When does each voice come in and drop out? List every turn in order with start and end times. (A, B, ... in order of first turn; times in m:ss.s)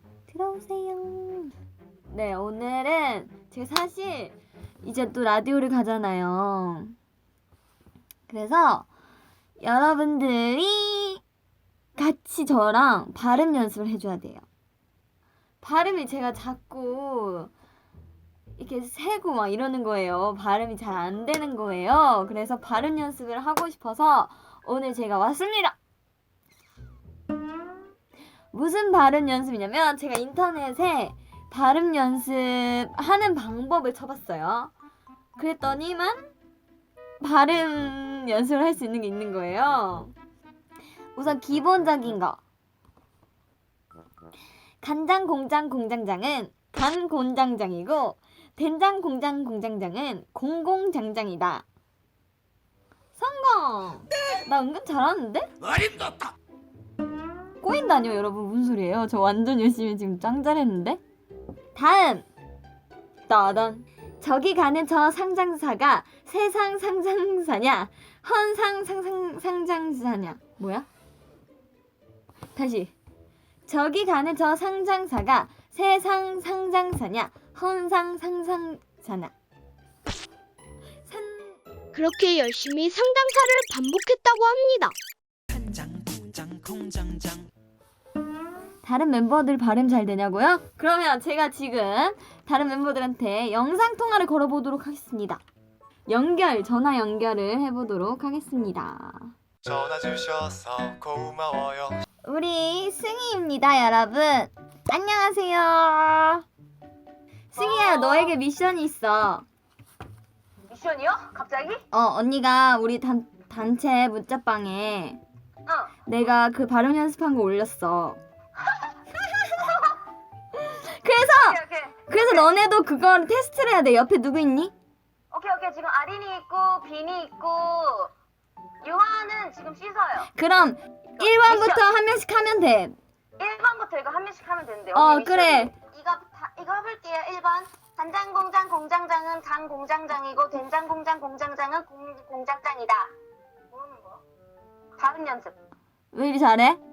0:00.3-0:01.5 A
0:02.1-0:06.9 A
0:08.3-0:08.9 A
0:09.6-0:11.2 A
0:12.0-0:14.4 A
0:15.6-0:17.5 A
0:18.6-0:25.7 A
0:28.5-0:34.7 A
0:35.4-0:36.3 A
0:37.2-0:40.1 A
0:41.1-0:42.4 A
0:44.8-0:51.6 A
0:53.2-0:55.5 A
0:55.7-0:56.3 B
0:57.6-1:01.0 A
1:01.7-1:02.2 A
1:03.3-1:10.9 A
1:12.5-1:12.9 A
1:13.7-1:19.3 A
1:21.1-1:21.6 A
1:21.9-1:24.9 C
1:25.5-1:27.5 B
1:28.8-1:35.4 A
1:36.1-1:39.3 A
1:39.6-1:42.0 D
1:42.2-1:46.4 A
1:47.5-1:49.4 A
1:47.6-1:48.3 E
1:50.7-1:51.8 E
1:51.9-1:55.2 A
1:55.6-1:55.9 E
1:56.0-1:58.2 A
1:58.6-1:58.9 E
1:59.6-1:59.9 E
2:00.6-2:04.7 A
2:01.3-2:02.4 E
2:05.3-2:08.1 E
2:08.8-2:10.3 E
2:10.3-2:12.9 A
2:11.2-2:11.9 E
2:13.4-2:23.1 E
2:14.9-2:15.7 A
2:23.7-2:24.2 E
2:25.0-2:25.5 E
2:26.1-2:26.8 A